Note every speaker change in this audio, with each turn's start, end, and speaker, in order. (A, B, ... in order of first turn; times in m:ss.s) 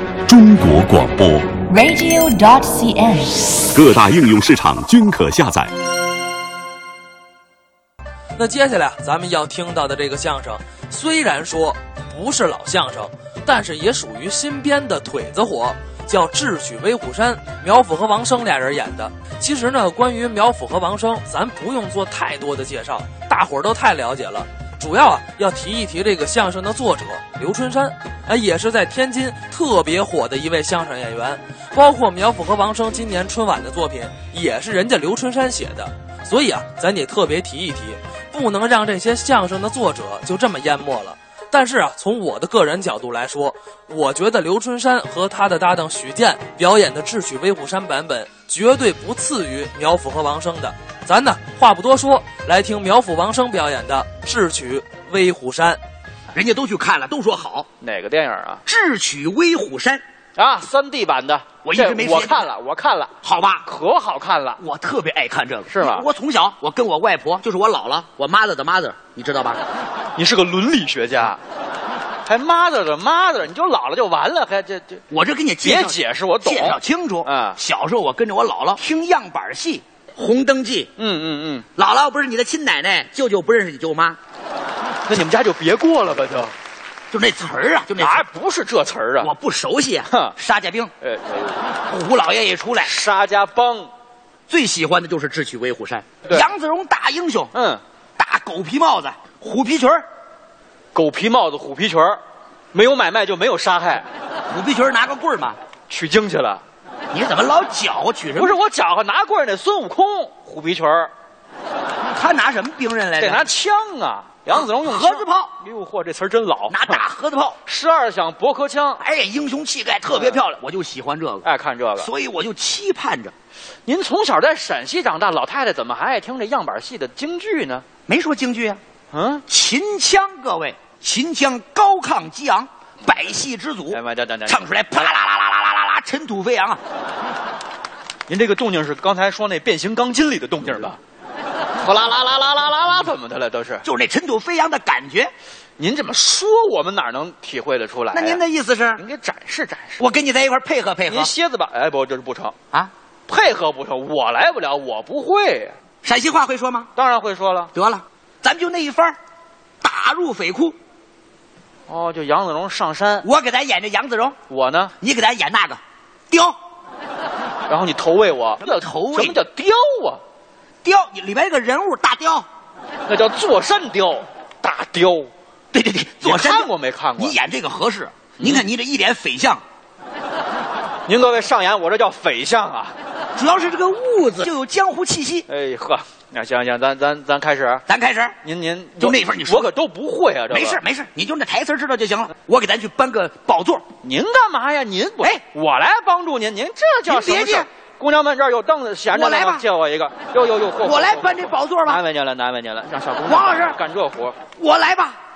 0:00.3-0:01.6 A
0:01.7-0:03.6 B
0:03.7-0:05.7 A
0:08.4-0:55.8 C
0:56.3-0:57.7 D
0:57.8-0:58.6 E
0:58.6-1:00.0 D
1:00.4-1:03.1 E
1:01.6-1:02.5 D
1:03.2-1:03.7 D
1:03.6-1:04.6 E
1:04.6-1:09.6 D
1:05.7-1:06.0 E
1:10.2-1:11.4 E
1:12.2-1:15.0 E
1:15.1-1:20.9 D
1:15.6-1:17.6 E
1:21.0-1:21.7 E
1:21.8-1:24.2 D
1:25.1-1:26.5 E
1:27.1-1:28.2 D
1:28.0-1:29.3 E
1:29.2-1:30.9 D
1:30.1-1:30.3 E
1:31.0-1:31.6 E
1:31.9-1:32.9 D
1:32.8-1:33.9 E
1:34.5-1:37.5 D
1:37.5-1:37.8 E
1:38.2-1:40.0 D
1:40.9-1:42.2 E
1:42.7-1:44.1 E
1:44.5-1:45.6 D
1:45.9-1:46.6 E
1:47.1-1:48.6 D
1:48.4-1:51.1 E
1:52.0-1:53.5 D
1:53.2-1:57.0 E
1:54.5-1:55.5 D
1:56.7-1:57.6 D
1:57.6-1:59.0 E
1:59.0-2:03.3 D
2:00.1-2:00.4 E
2:01.4-2:02.1 E
2:03.8-2:07.8 E
2:08.1-2:08.8 D
2:09.1-2:09.4 E
2:09.5-2:16.8 D
2:13.9-2:15.1 E
2:18.3-2:21.0 E
2:21.8-2:23.8 E
2:23.8-2:25.3 D
2:25.8-2:28.4 E
2:28.1-2:29.0 D
2:29.0-2:30.0 E
2:30.0-2:31.3 D
2:31.1-2:32.5 E
2:33.3-2:35.8 E
2:36.0-2:36.9 D
2:37.0-2:37.7 E
2:37.7-2:39.2 D
2:39.8-2:40.8 D
2:41.9-2:43.2 E
2:43.2-2:44.4 D
2:44.5-2:44.9 E
2:45.0-2:46.6 D
2:47.7-2:50.2 E
2:48.6-2:49.4 D
2:50.8-2:52.5 D
2:53.1-2:55.3 E
2:55.7-2:59.6 D
2:56.2-2:57.4 E
2:58.4-2:58.6 E
3:01.1-3:02.9 E
3:03.4-3:05.4 D
3:05.5-3:07.8 E
3:07.9-3:08.4 D
3:08.4-3:10.8 E
3:09.0-3:09.7 D
3:10.5-3:13.9 D
3:14.0-3:24.4 E
3:17.0-3:17.7 D
3:19.1-3:19.6 D
3:20.8-3:22.0 D
3:23.2-3:23.8 D
3:24.6-3:25.2 D